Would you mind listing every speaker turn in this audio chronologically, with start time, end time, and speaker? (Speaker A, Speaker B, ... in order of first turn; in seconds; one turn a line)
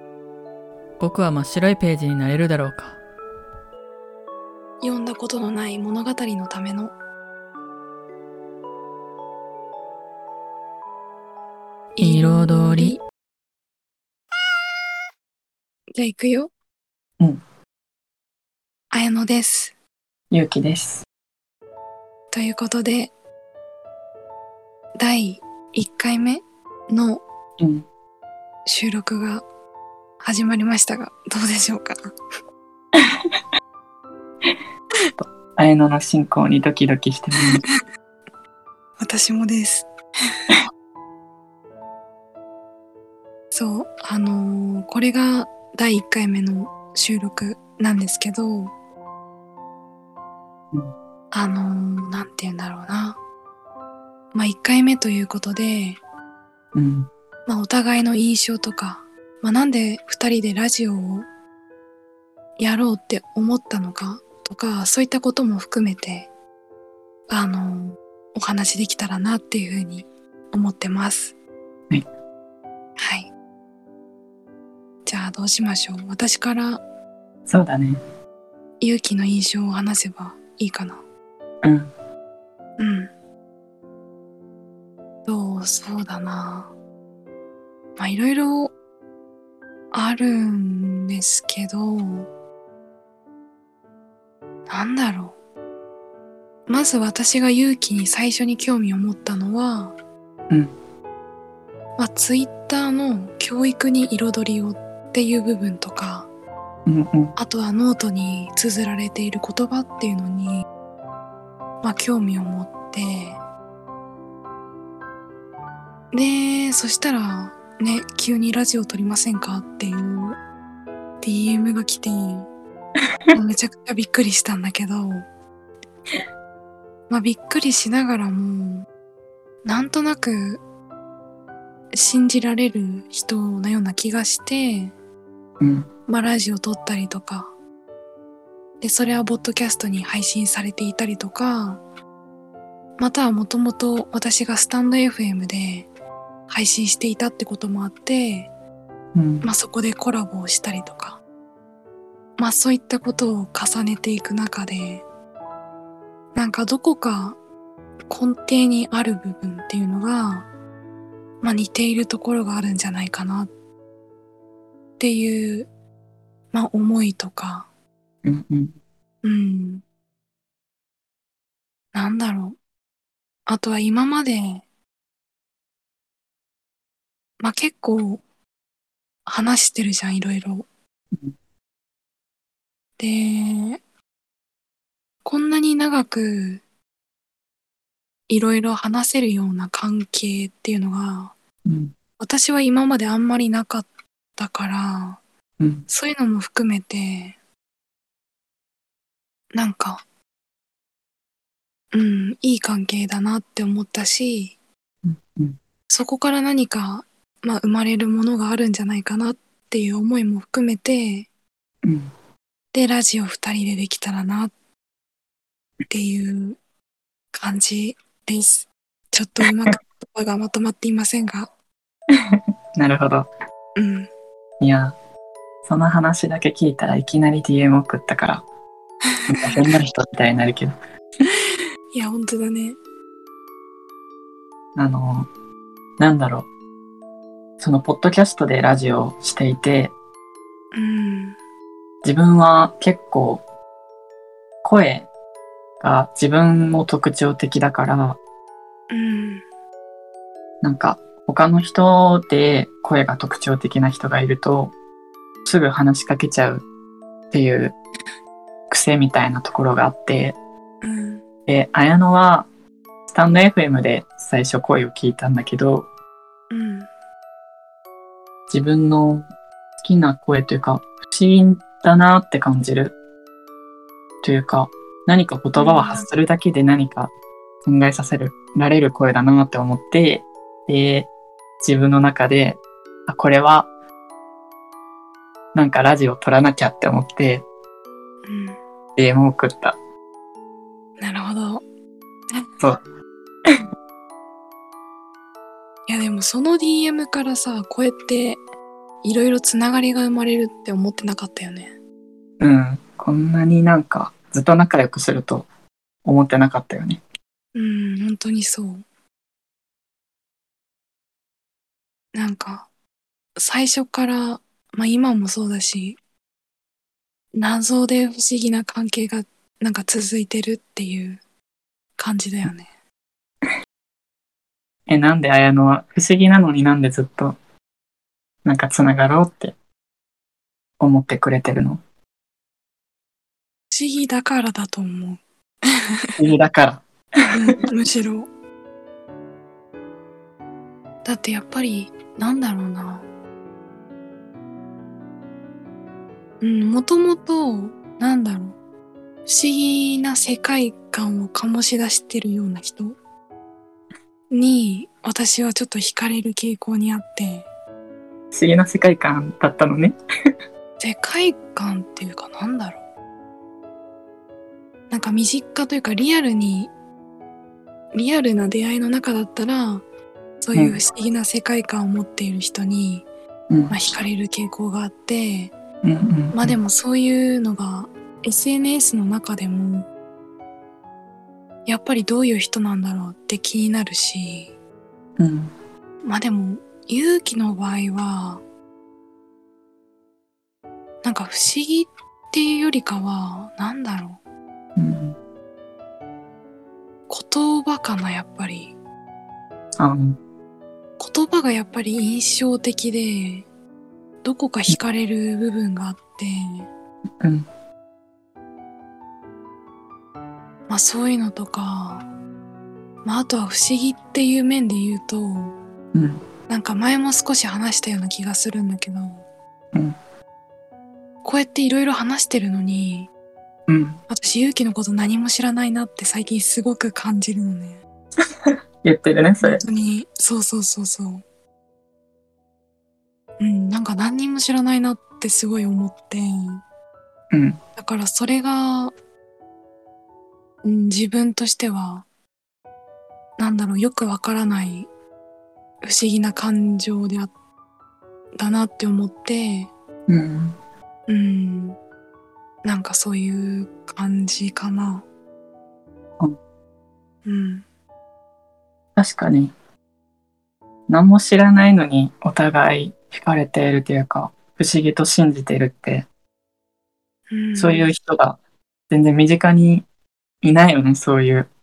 Speaker A: 1.0-3.0
Speaker B: 4.8-6.9
Speaker B: 12.0-13.0
Speaker A: 12.0-12.9
Speaker B: 15.9-16.5
Speaker B: 18.9-19.7
Speaker C: 20.3-21.1
Speaker B: 22.3-23.1
Speaker B: 25.0-27.2
Speaker C: 27.6-27.9
Speaker B: 28.7-29.4
Speaker B: 30.2-32.0
Speaker C: 35.2-37.6
Speaker B: 39.0-39.9
Speaker B: 43.5-48.7
Speaker B: 51.3-53.2
Speaker B: 54.3-56.0
Speaker C: 56.8-57.1
Speaker B: 57.5-61.3
Speaker B: 62.6-66.3
Speaker B: 67.3-71.3
Speaker B: 73.0-73.3
Speaker B: 75.1-76.8
Speaker C: 77.5-78.0
Speaker B: 78.8-81.0
Speaker C: 81.6-81.9
Speaker B: 82.8-83.1
Speaker B: 85.3-86.7
Speaker B: 88.0-88.7
Speaker B: 89.9-92.3
Speaker B: 94.7-95.4
Speaker B: 96.7-100.0
Speaker B: 102.0-106.3
Speaker C: 106.9-107.4
Speaker B: 107.4-110.7
Speaker B: 111.8-113.4
Speaker B: 116.1-120.4
Speaker B: 121.2-122.5
Speaker B: 123.3-125.2
Speaker B: 127.1-128.9
Speaker B: 129.7-130.6
Speaker B: 131.9-134.9
Speaker C: 135.6-135.9
Speaker B: 136.1-137.5
Speaker B: 138.8-141.8
Speaker B: 143.0-145.9
Speaker B: 146.5-148.5
Speaker C: 149.2-149.5
Speaker B: 149.4-151.2
Speaker B: 152.4-155.1
Speaker B: 156.3-157.4
Speaker B: 158.1-160.5
Speaker B: 161.4-163.5
Speaker B: 165.0-165.7
Speaker B: 166.5-167.7
Speaker C: 168.2-168.8
Speaker B: 169.2-169.8
Speaker B: 171.9-172.6
Speaker B: 173.5-174.6
Speaker B: 177.4-178.2
Speaker B: 179.3-180.7
Speaker B: 183.0-183.8
Speaker B: 185.2-186.6
Speaker B: 188.3-191.3
Speaker C: 191.7-191.9
Speaker B: 192.2-195.2
Speaker C: 195.6-195.9
Speaker B: 195.9-197.4
Speaker B: 199.5-200.0
Speaker B: 201.9-204.6
Speaker C: 205.1-205.6
Speaker B: 205.9-211.3
Speaker C: 211.8-212.1
Speaker B: 212.7-214.5
Speaker B: 215.9-216.6
Speaker B: 217.3-221.5
Speaker C: 222.8-223.3
Speaker B: 223.8-224.1
Speaker C: 224.6-224.9
Speaker C: 225.7-228.4
Speaker B: 229.1-229.7
Speaker C: 229.3-230.7
Speaker B: 231.9-232.8
Speaker C: 234.8-235.3
Speaker C: 236.0-236.5
Speaker C: 237.6-239.9
Speaker B: 240.7-241.4
Speaker C: 242.0-243.4
Speaker C: 244.6-245.1
Speaker C: 245.8-248.2
Speaker B: 248.9-249.4
Speaker C: 250.6-254.7
Speaker C: 255.4-256.6
Speaker C: 257.3-257.8
Speaker C: 258.7-260.4
Speaker B: 260.8-261.2
Speaker C: 261.5-262.5
Speaker C: 263.1-265.9
Speaker B: 266.5-266.9
Speaker C: 268.5-269.3
Speaker C: 269.8-273.0
Speaker C: 274.2-277.1
Speaker B: 275.6-276.1
Speaker C: 277.6-281.1
Speaker C: 281.6-283.7
Speaker C: 285.5-287.5
Speaker B: 288.3-288.6
Speaker C: 289.0-289.8
Speaker B: 291.0-291.6
Speaker B: 295.9-298.4
Speaker B: 299.0-301.7
Speaker C: 302.4-305.5
Speaker C: 306.1-307.0
Speaker B: 307.6-308.9
Speaker B: 312.1-312.7
Speaker B: 313.4-316.0
Speaker B: 317.4-321.2
Speaker B: 322.0-322.7
Speaker C: 324.9-327.4
Speaker C: 328.4-329.6
Speaker C: 330.8-331.8
Speaker B: 333.7-335.2
Speaker C: 336.2-337.3
Speaker B: 337.3-338.3
Speaker B: 341.1-343.1
Speaker B: 346.4-348.6
Speaker B: 349.3-353.0
Speaker B: 354.3-357.5
Speaker C: 358.3-359.9
Speaker B: 360.8-362.8
Speaker B: 364.9-366.7
Speaker B: 367.9-369.8
Speaker B: 370.4-373.1
Speaker C: 370.5-370.8
Speaker C: 373.5-373.8
Speaker B: 373.7-375.5
Speaker C: 375.8-376.6
Speaker B: 376.3-379.9
Speaker B: 381.7-384.5
Speaker C: 385.2-385.5
Speaker B: 386.0-388.4
Speaker B: 391.0-394.2
Speaker C: 394.8-395.2
Speaker B: 397.1-398.8
Speaker C: 399.8-400.2
Speaker B: 401.0-403.5
Speaker B: 404.2-406.7
Speaker C: 407.2-407.5
Speaker B: 410.7-412.1
Speaker B: 413.0-415.6
Speaker C: 415.9-416.2
Speaker B: 416.5-419.2
Speaker B: 421.2-423.1
Speaker C: 423.7-424.0
Speaker B: 424.1-427.8
Speaker C: 428.5-429.6
Speaker B: 429.4-431.2
Speaker B: 433.4-436.6
Speaker C: 437.3-437.6
Speaker B: 437.8-438.9
Speaker B: 440.6-442.1
Speaker B: 443.4-444.9
Speaker B: 445.8-447.3
Speaker B: 448.4-449.7
Speaker C: 450.1-450.6
Speaker B: 451.1-451.8
Speaker B: 452.6-455.1
Speaker B: 457.3-457.6
Speaker C: 459.0-459.5
Speaker C: 460.9-466.1
Speaker B: 467.3-467.9
Speaker C: 467.6-468.4
Speaker C: 468.9-469.9
Speaker C: 470.4-471.5